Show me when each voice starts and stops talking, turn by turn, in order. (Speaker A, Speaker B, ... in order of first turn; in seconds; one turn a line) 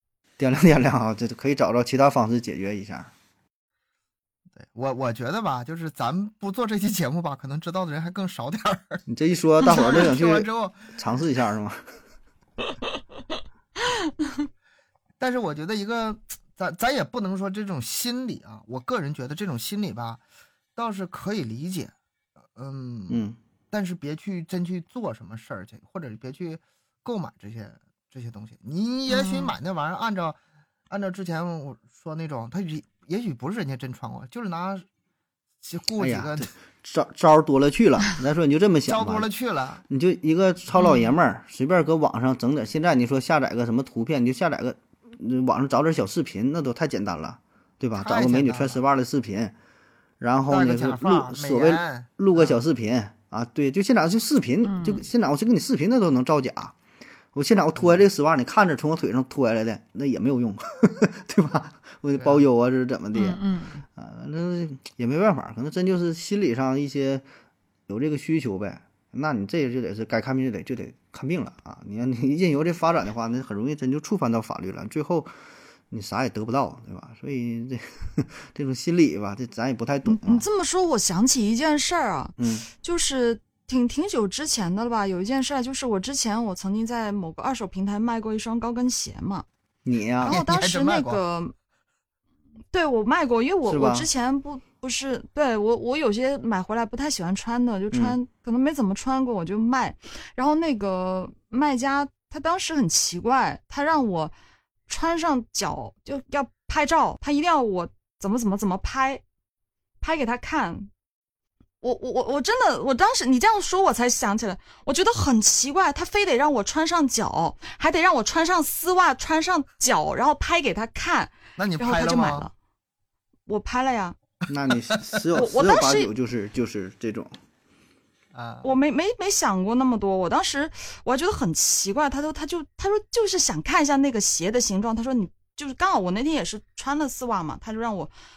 Speaker A: 0.4-3.1
Speaker B: 4.6-9.0
Speaker A: 9.1-11.8
Speaker B: 9.6-10.9
Speaker B: 15.2-20.2
Speaker B: 20.8-21.9
Speaker B: 22.6-30.4
Speaker A: 23.1-23.4
Speaker C: 29.1-29.5
Speaker B: 30.9-34.9
Speaker B: 35.6-36.5
Speaker A: 36.0-39.3
Speaker B: 38.9-39.8
Speaker A: 39.9-49.5
Speaker C: 40.8-41.1
Speaker B: 48.0-48.8
Speaker A: 50.2-56.8
Speaker B: 50.5-52.6
Speaker C: 54.6-55.1
Speaker A: 57.3-67.2
Speaker B: 62.2-62.4
Speaker C: 63.1-63.8
Speaker A: 67.9-75.3
Speaker A: 75.9-80.5
Speaker C: 80.1-89.5
Speaker A: 82.4-82.7
Speaker A: 89.8-90.4
Speaker B: 90.2-91.2
Speaker C: 90.2-91.5
Speaker C: 92.7-104.3
Speaker A: 93.7-94.1
Speaker C: 104.9-109.2
Speaker C: 110.0-110.9
Speaker C: 111.8-122.5
Speaker B: 121.6-122.5
Speaker C: 123.5-124.2
Speaker A: 124.5-127.4
Speaker C: 125.3-126.1
Speaker B: 128.3-128.7
Speaker C: 128.6-138.1